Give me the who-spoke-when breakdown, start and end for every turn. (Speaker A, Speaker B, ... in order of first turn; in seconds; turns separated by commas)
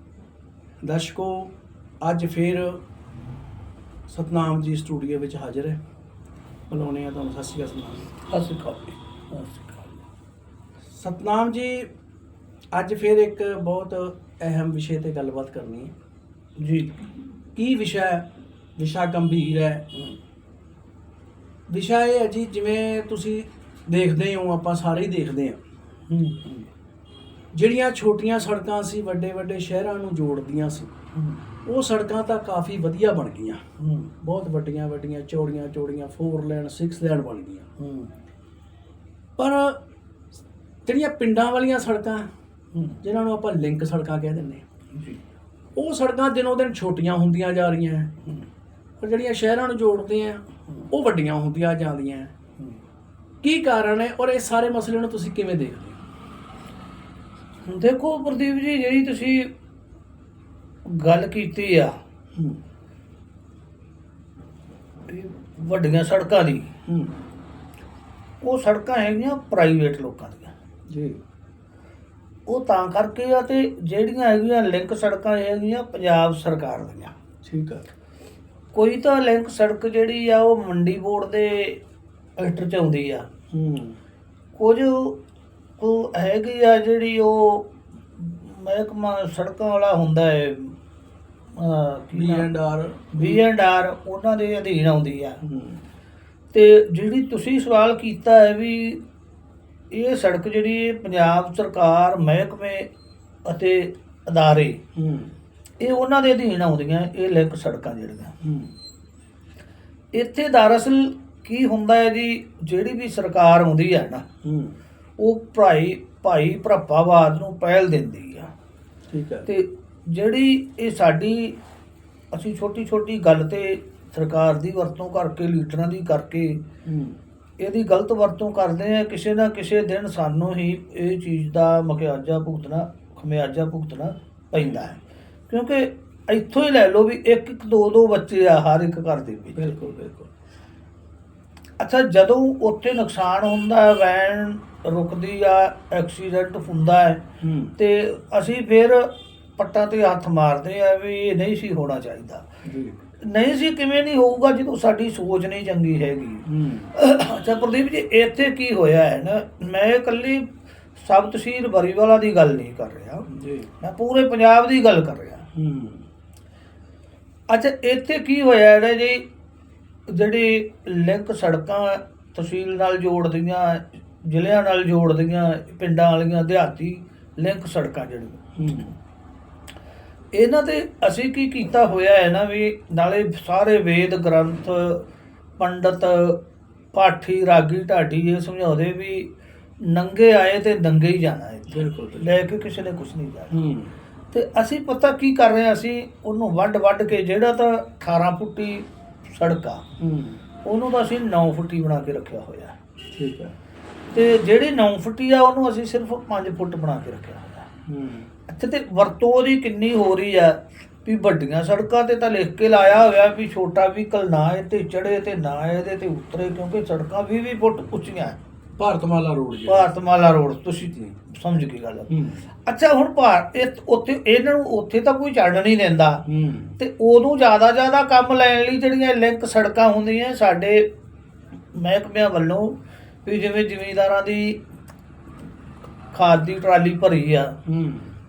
Speaker A: 0.8-2.8, Speaker A: 4.1-5.8, Speaker A: 6.7-8.1, Speaker B: 8.3-9.9, Speaker A: 10.9-11.9, Speaker A: 12.7-15.9, Speaker B: 16.6-17.0, Speaker A: 17.6-19.9, Speaker A: 21.7-25.6, Speaker B: 26.1-26.6, Speaker A: 27.5-30.9, Speaker A: 31.6-33.6, Speaker B: 33.8-34.1, Speaker A: 34.2-37.7, Speaker B: 37.8-38.1, Speaker A: 39.4-39.8, Speaker A: 40.9-42.3, Speaker B: 42.7-43.0, Speaker A: 43.0-44.6, Speaker A: 45.8-48.3, Speaker A: 49.0-52.4, Speaker A: 53.4-56.0, Speaker B: 57.6-59.5, Speaker B: 60.9-61.9, Speaker A: 62.4-62.6, Speaker B: 65.1-66.7, Speaker A: 66.9-67.2, Speaker B: 68.4-70.5, Speaker A: 70.9-71.2, Speaker B: 72.5-77.2, Speaker A: 77.4-77.8, Speaker B: 78.7-81.8, Speaker B: 82.4-83.3, Speaker A: 83.5-84.0, Speaker B: 84.5-85.2, Speaker B: 85.8-90.8, Speaker B: 91.5-92.5, Speaker A: 92.1-93.4, Speaker B: 93.1-95.4, Speaker A: 95.4-95.8, Speaker B: 96.5-99.0, Speaker B: 99.9-102.9, Speaker B: 103.5-104.8, Speaker A: 105.0-105.3, Speaker B: 105.8-108.3, Speaker A: 108.4-108.7, Speaker B: 110.1-114.2, Speaker A: 114.4-114.8, Speaker B: 115.2-118.5, Speaker A: 119.1-119.5, Speaker B: 119.5-121.6, Speaker B: 122.3-126.6, Speaker A: 126.8-127.2, Speaker B: 127.6-139.8, Speaker A: 139.6-140.3, Speaker B: 141.8-147.2, Speaker A: 147.4-147.8, Speaker B: 147.8-152.4, Speaker A: 152.7-153.0, Speaker B: 153.2-163.3, Speaker A: 156.5-156.9, Speaker A: 163.3-163.7, Speaker B: 163.8-165.5, Speaker A: 165.5-166.1, Speaker B: 167.5-169.3, Speaker B: 170.1-178.4, Speaker A: 178.6-178.9, Speaker B: 180.3-185.1, Speaker B: 185.6-186.4, Speaker B: 186.9-193.6, Speaker A: 191.7-192.4, Speaker A: 193.5-193.9, Speaker B: 194.3-199.8, Speaker A: 200.0-200.4, Speaker B: 200.7-202.8, Speaker A: 203.1-203.5, Speaker B: 204.1-207.7, Speaker A: 207.9-208.3, Speaker B: 208.5-218.4, Speaker A: 218.8-219.9, Speaker B: 219.7-222.1, Speaker A: 222.1-222.5, Speaker B: 222.7-226.2, Speaker A: 226.2-226.8, Speaker B: 226.8-230.9, Speaker B: 231.7-234.6, Speaker B: 236.1-237.6, Speaker A: 237.7-238.2